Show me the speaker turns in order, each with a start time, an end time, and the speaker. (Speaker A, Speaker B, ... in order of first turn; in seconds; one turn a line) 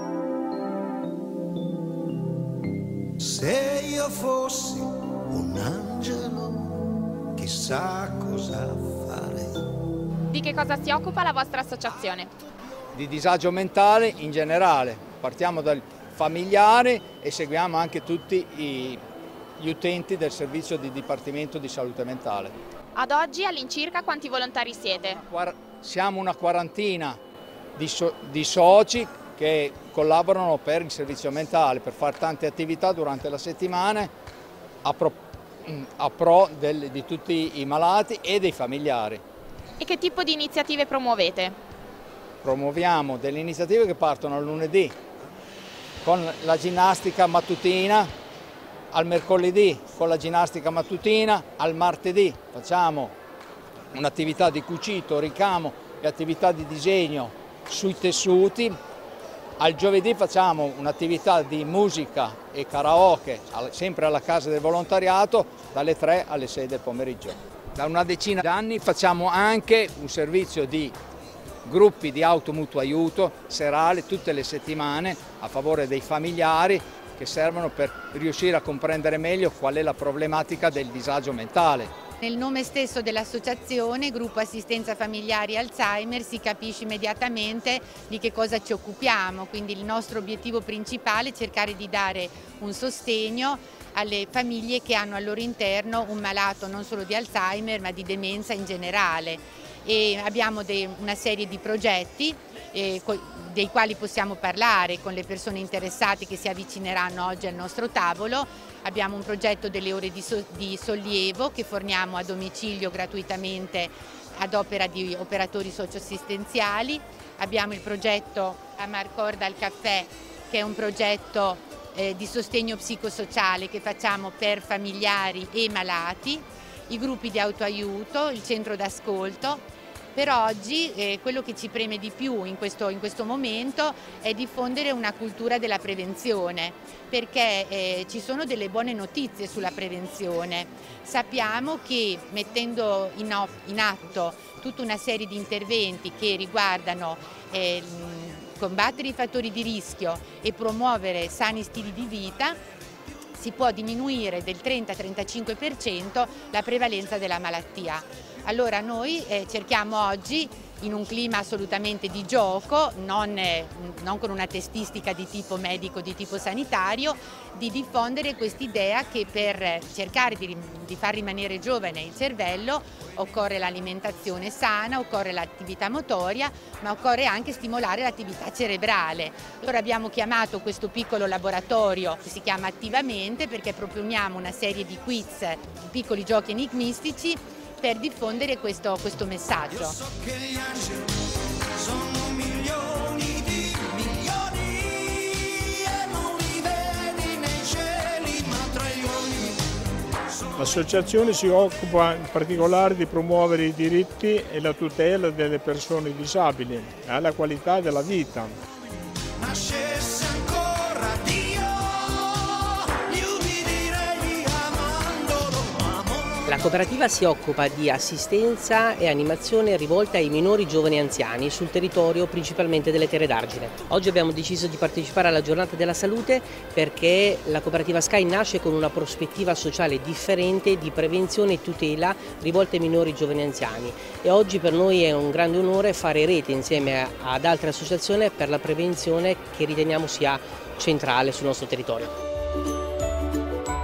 Speaker A: 3.2-9.7
Speaker B: 10.3-12.3
Speaker C: 12.9-19.0
Speaker C: 19.6-22.6
Speaker B: 22.9-25.2
Speaker C: 25.2-27.2
Speaker C: 27.8-34.1
Speaker C: 34.8-39.2
Speaker B: 39.8-41.6
Speaker C: 42.4-45.0
Speaker C: 46.0-48.1
Speaker C: 48.9-53.1
Speaker C: 53.9-58.8
Speaker C: 59.6-71.0
Speaker C: 71.7-81.9
Speaker D: 82.2-152.6
Speaker D: 153.3-190.0
Speaker A: 190.4-190.7
Speaker A: 191.9-193.4
Speaker A: 194.0-194.5
Speaker A: 196.0-199.2
Speaker E: 200.6-208.4
Speaker A: 209.5-211.6
Speaker A: 213.2-215.4
Speaker F: 216.5-242.1